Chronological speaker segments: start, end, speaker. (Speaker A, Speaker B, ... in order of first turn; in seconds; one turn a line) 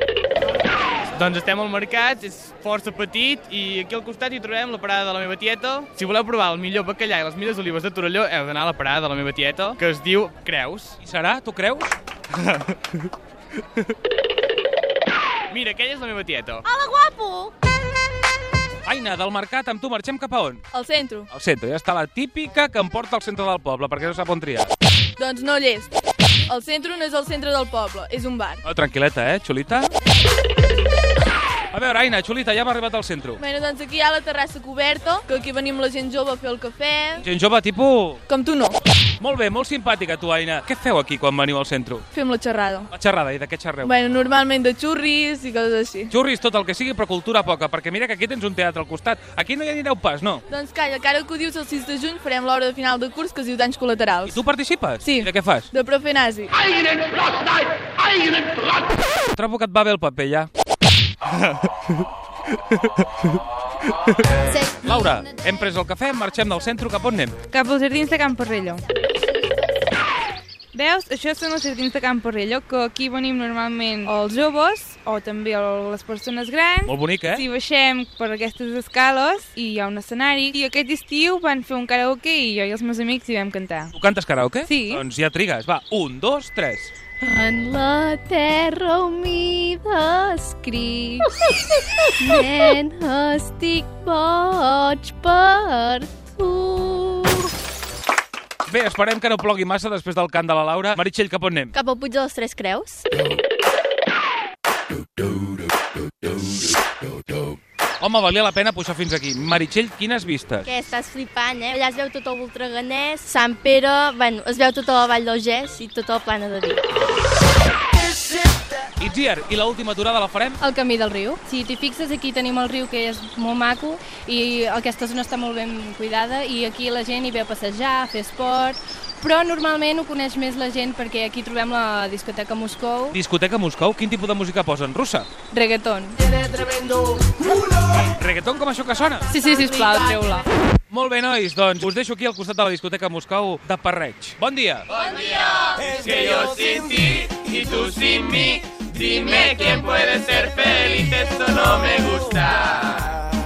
Speaker A: 1.1-11.0
Speaker B: 11.0-12.0
Speaker A: 12.4-12.7
Speaker A: 15.5-16.6
Speaker B: 18.9-20.6
Speaker C: 20.7-21.3
Speaker B: 21.3-24.7
Speaker C: 25.2-25.9
Speaker C: 26.5-28.6
Speaker B: 28.6-29.9
Speaker B: 31.7-33.4
Speaker C: 33.4-37.2
Speaker B: 37.2-38.2
Speaker C: 38.3-38.8
Speaker B: 39.2-42.1
Speaker C: 42.1-42.9
Speaker B: 42.9-43.9
Speaker C: 43.8-46.1
Speaker B: 46.1-50.4
Speaker C: 50.5-54.4
Speaker B: 54.2-55.7
Speaker C: 55.0-56.5
Speaker B: 59.3-60.5
Speaker D: 64.5-64.9
Speaker B: 64.8-67.4
Speaker E: 67.5-68.8
Speaker E: 70.7-83.9
Speaker B: 76.8-77.5
Speaker B: 83.9-86.9
Speaker E: 84.7-85.0
Speaker F: 87.3-88.5
Speaker F: 89.2-91.2
Speaker D: 92.2-96.1
Speaker F: 92.3-93.2
Speaker B: 98.7-101.7
Speaker D: 101.8-103.0
Speaker B: 108.0-110.7
Speaker D: 110.7-116.8
Speaker B: 119.0-120.6
Speaker F: 120.6-133.2
Speaker B: 133.1-135.3
Speaker F: 135.5-136.5
Speaker B: 138.2-139.3
Speaker F: 139.3-140.5
Speaker B: 140.9-144.9
Speaker A: 146.1-151.5